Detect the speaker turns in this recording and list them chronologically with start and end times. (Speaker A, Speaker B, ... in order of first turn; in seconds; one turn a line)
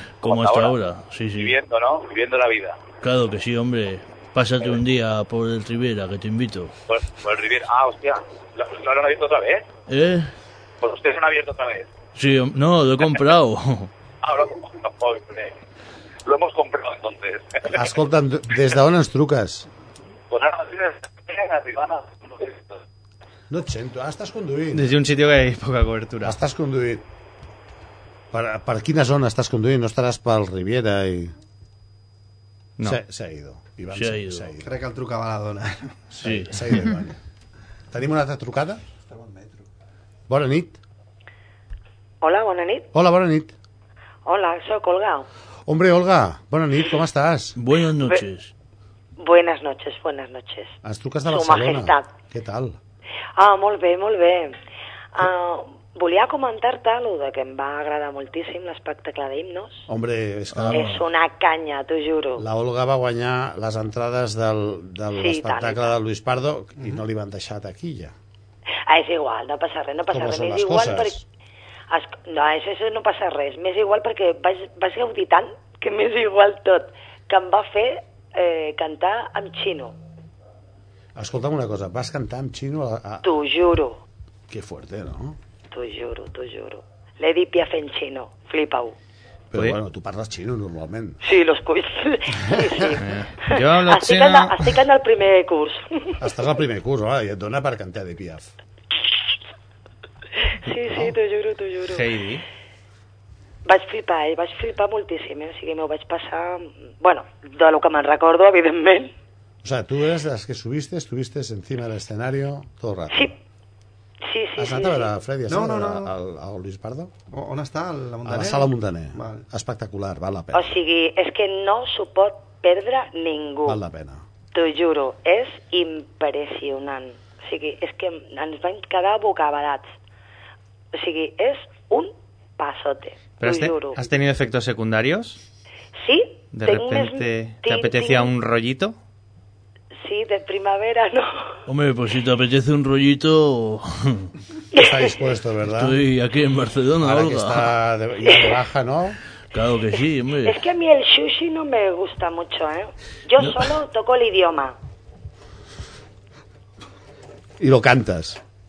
Speaker A: 0.2-1.6
Speaker B: 0.2-0.7
Speaker B: 1.4-2.8
Speaker A: 3.0-6.7
Speaker B: 6.9-9.7
Speaker A: 9.9-10.3
Speaker B: 10.8-11.9
Speaker A: 12.1-13.9
Speaker B: 14.2-15.5
Speaker B: 16.2-17.8
Speaker C: 17.7-19.7
Speaker B: 20.3-22.8
Speaker C: 23.5-25.0
Speaker D: 24.7-26.4
Speaker C: 26.2-27.0
Speaker C: 28.3-31.3
Speaker C: 32.8-34.8
Speaker A: 33.9-34.5
Speaker E: 34.6-36.0
Speaker C: 36.1-37.2
Speaker A: 36.2-36.8
Speaker C: 37.9-38.8
Speaker E: 39.1-39.6
Speaker C: 40.3-40.8
Speaker F: 42.2-42.9
Speaker C: 42.9-43.5
Speaker F: 44.2-45.3
Speaker C: 45.7-47.5
Speaker A: 47.6-48.5
Speaker F: 49.2-52.1
Speaker C: 50.8-52.8
Speaker F: 53.4-54.6
Speaker F: 55.1-59.9
Speaker C: 59.9-60.9
Speaker A: 60.5-61.0
Speaker F: 60.7-62.4
Speaker C: 62.4-68.1
Speaker F: 65.1-65.9
Speaker F: 68.9-71.2
Speaker C: 70.1-71.2
Speaker F: 71.9-79.9
Speaker C: 81.2-83.3
Speaker F: 83.2-84.0
Speaker C: 84.5-85.4
Speaker F: 85.7-89.0
Speaker C: 89.5-91.2
Speaker F: 91.2-96.2
Speaker D: 93.0-94.6
Speaker C: 96.2-98.5
Speaker F: 100.6-102.1
Speaker D: 101.9-102.4
Speaker F: 103.6-109.1
Speaker C: 109.6-113.3
Speaker F: 114.2-115.1
Speaker C: 114.6-117.1
Speaker E: 115.5-116.1
Speaker E: 117.3-119.4
Speaker C: 118.2-120.8
Speaker F: 120.5-123.8
Speaker C: 123.7-124.2
Speaker F: 124.5-129.9
Speaker F: 130.9-134.0
Speaker D: 133.4-135.4
Speaker F: 136.0-138.3
Speaker D: 136.5-138.9
Speaker F: 139.9-141.5
Speaker A: 141.7-144.3
Speaker C: 144.7-146.0
Speaker F: 144.7-145.2
Speaker A: 145.6-147.7
Speaker C: 147.0-149.2
Speaker F: 148.2-148.6
Speaker A: 149.5-150.6
Speaker F: 150.4-154.7
Speaker A: 153.4-153.7
Speaker C: 157.6-158.4